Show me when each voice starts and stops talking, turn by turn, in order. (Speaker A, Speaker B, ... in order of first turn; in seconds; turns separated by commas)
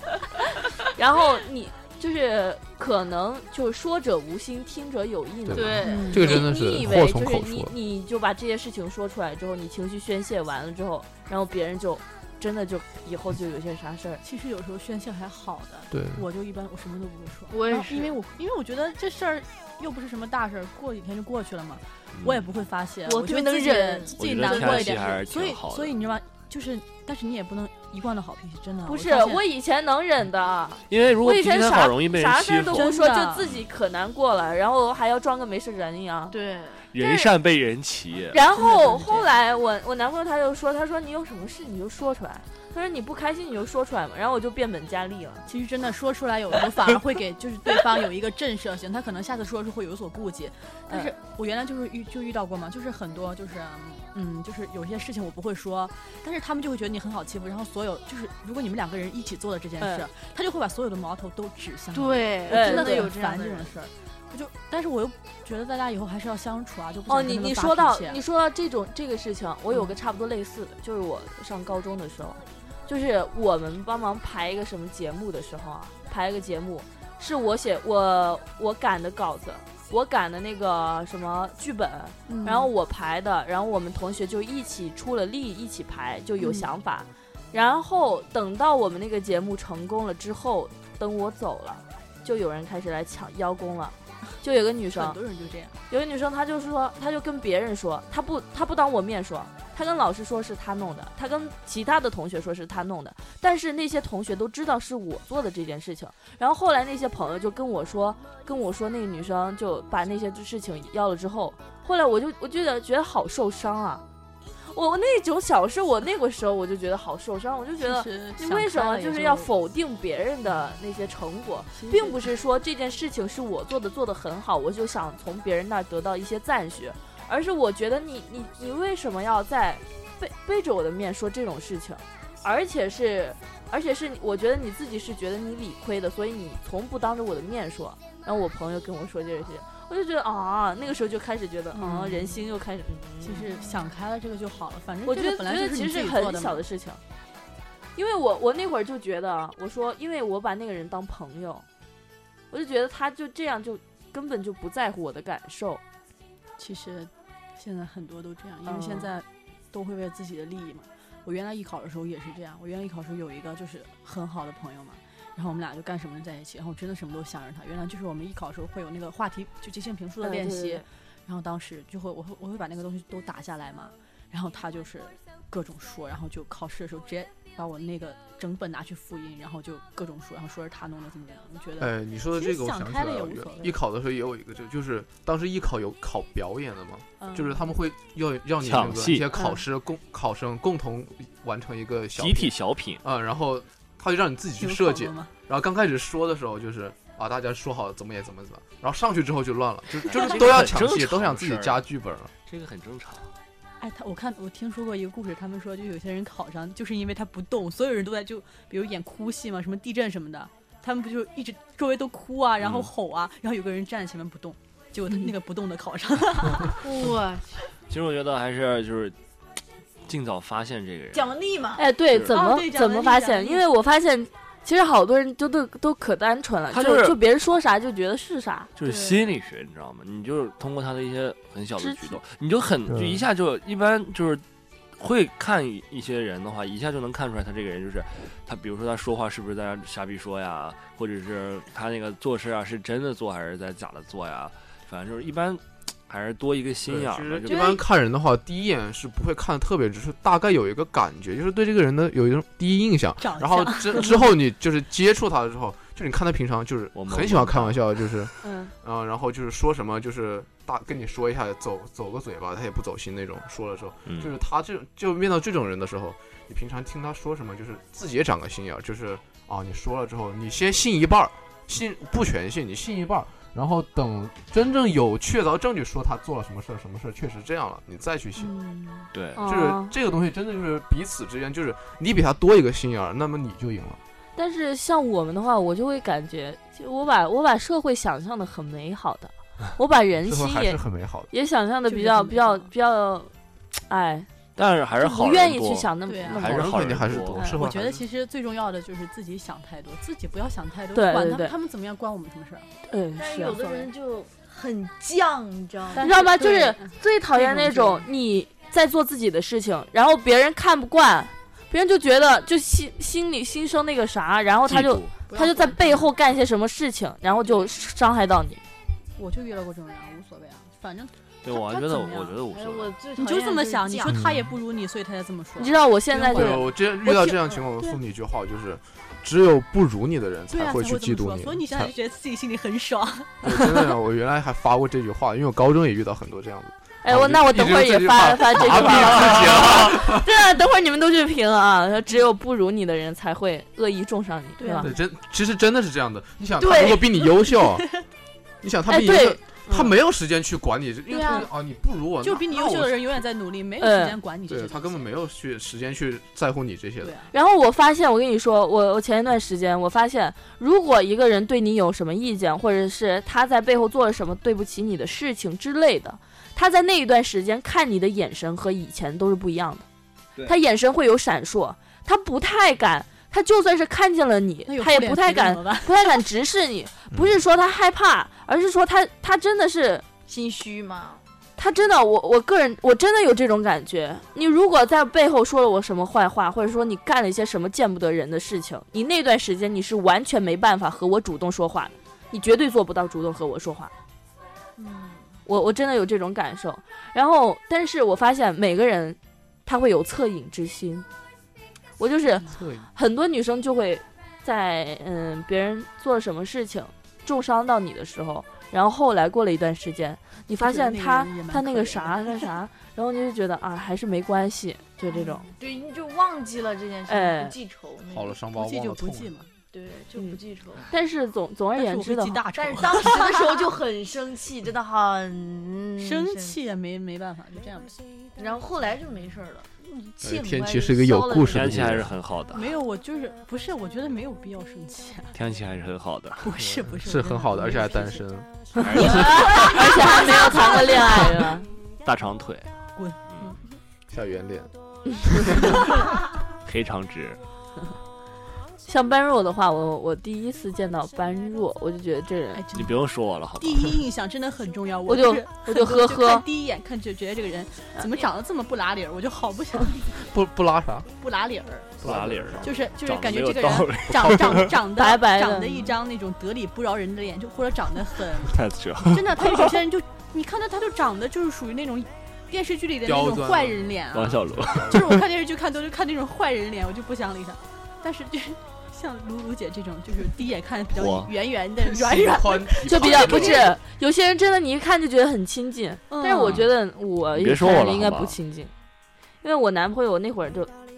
Speaker A: 0.8-14.2, Speaker B: 5.5-7.8, Speaker C: 5.5-6.6, Speaker D: 5.8-6.3, Speaker D: 14.2-29.4, Speaker B: 15.9-16.2, Speaker C: 17.5-18.2, Speaker E: 22.1-22.6, Speaker C: 23.1-25.0, Speaker E: 24.2-26.0, Speaker A: 28.9-36.4, Speaker E: 30.9-33.7, Speaker D: 32.7-33.4, Speaker C: 36.3-36.9, Speaker E: 36.9-38.4, Speaker A: 37.0-37.3, Speaker A: 38.3-45.5, Speaker D: 38.5-39.3, Speaker D: 45.5-68.2, Speaker A: 59.8-60.1, Speaker C: 61.9-63.9, Speaker A: 62.5-63.1, Speaker A: 67.1-95.2, Speaker D: 82.3-82.7, Speaker D: 86.4-86.7, Speaker D: 94.9-95.8, Speaker A: 95.9-114.0, Speaker A: 114.7-143.9, Speaker D: 117.8-119.5, Speaker D: 121.7-122.2, Speaker D: 141.7-142.5, Speaker D: 143.2-146.6, Speaker A: 145.1-147.0, Speaker A: 148.0-151.7, Speaker A: 152.5-155.8, Speaker D: 156.6-183.7, Speaker A: 158.6-159.1, Speaker A: 170.2-170.9, Speaker B: 181.8-202.3, Speaker D: 187.2-187.7, Speaker E: 188.6-189.3, Speaker A: 189.3-189.6, Speaker E: 192.2-193.0, Speaker D: 194.6-195.3, Speaker E: 200.0-201.8, Speaker E: 202.5-203.3, Speaker D: 203.8-216.9, Speaker E: 212.6-212.9, Speaker C: 216.8-217.6, Speaker E: 217.9-219.2, Speaker E: 220.1-221.4, Speaker C: 221.1-221.9, Speaker A: 221.8-228.7, Speaker D: 222.3-223.5, Speaker C: 222.7-223.3, Speaker E: 226.7-227.2, Speaker E: 228.8-234.4, Speaker C: 228.8-229.3, Speaker A: 231.8-232.2, Speaker B: 232.9-233.2, Speaker E: 235.0-247.7, Speaker B: 246.9-278.5, Speaker C: 247.5-247.8, Speaker D: 253.2-254.2, Speaker E: 256.9-258.0, Speaker A: 258.4-258.7, Speaker E: 264.1-264.3, Speaker D: 278.4-279.1, Speaker E: 279.1-279.4, Speaker A: 279.4-279.9, Speaker B: 279.4-284.0, Speaker A: 284.4-294.3, Speaker B: 290.3-291.3, Speaker D: 291.9-292.7, Speaker E: 294.6-297.5, Speaker A: 295.0-296.7, Speaker D: 296.1-296.4, Speaker B: 296.3-298.1, Speaker D: 297.4-302.7, Speaker A: 300.9-301.6, Speaker A: 302.9-303.6, Speaker C: 303.2-306.3, Speaker D: 303.5-303.9, Speaker D: 305.9-308.1, Speaker A: 306.0-318.6, Speaker E: 314.7-315.1, Speaker C: 315.3-316.1, Speaker D: 319.2-322.4, Speaker E: 321.4-322.9, Speaker C: 322.5-324.2, Speaker D: 323.1-327.9, Speaker B: 324.1-324.5, Speaker A: 325.6-326.7, Speaker B: 326.3-331.9, Speaker D: 330.5-333.5, Speaker B: 333.4-340.3, Speaker A: 337.0-344.9, Speaker E: 338.8-339.8, Speaker C: 344.6-344.9, Speaker B: 344.8-347.9, Speaker C: 346.6-347.1, Speaker D: 347.6-348.0, Speaker B: 348.6-353.2, Speaker A: 348.9-349.4, Speaker C: 351.1-351.5, Speaker D: 352.2-355.0, Speaker A: 353.8-354.2, Speaker B: 354.5-357.1, Speaker D: 357.0-357.3, Speaker A: 357.3-369.9, Speaker A: 370.4-380.1, Speaker D: 374.7-376.2, Speaker C: 380.3-381.2, Speaker A: 381.6-393.9, Speaker C: 394.8-395.4, Speaker A: 395.5-401.1, Speaker A: 402.0-415.5, Speaker B: 402.5-402.9, Speaker D: 410.6-412.5, Speaker C: 415.4-418.4, Speaker A: 417.1-417.6, Speaker B: 418.1-419.3, Speaker D: 418.5-419.6, Speaker C: 419.7-420.9, Speaker A: 420.2-422.4, Speaker D: 421.7-423.7, Speaker C: 422.6-426.6, Speaker D: 426.0-427.9, Speaker C: 428.4-432.0, Speaker B: 430.2-432.2, Speaker E: 431.4-432.8, Speaker D: 432.5-435.4, Speaker E: 435.3-436.5, Speaker D: 436.4-438.2, Speaker B: 436.6-438.5, Speaker E: 438.8-439.9, Speaker A: 438.8-441.7, Speaker D: 439.0-439.6, Speaker C: 439.8-441.1, Speaker E: 442.0-442.7, Speaker D: 442.9-443.8, Speaker E: 443.3-443.6, Speaker B: 444.1-444.7, Speaker B: 445.2-445.8, Speaker D: 445.6-446.1, Speaker E: 446.6-447.4, Speaker A: 448.9-452.6, Speaker D: 452.5-453.1, Speaker E: 452.7-454.0, Speaker D: 453.6-460.2, Speaker A: 455.1-456.5, Speaker B: 460.2-461.1, Speaker D: 461.2-462.0, Speaker B: 462.0-462.9, Speaker E: 462.0-464.7, Speaker D: 462.6-483.7, Speaker A: 465.0-465.9, Speaker E: 468.5-469.2, Speaker B: 473.1-475.3, Speaker E: 474.1-475.1, Speaker E: 480.9-481.3, Speaker B: 481.8-483.7, Speaker A: 482.8-488.7, Speaker D: 486.1-486.7, Speaker E: 486.4-486.7, Speaker E: 487.3-488.4, Speaker A: 489.4-490.7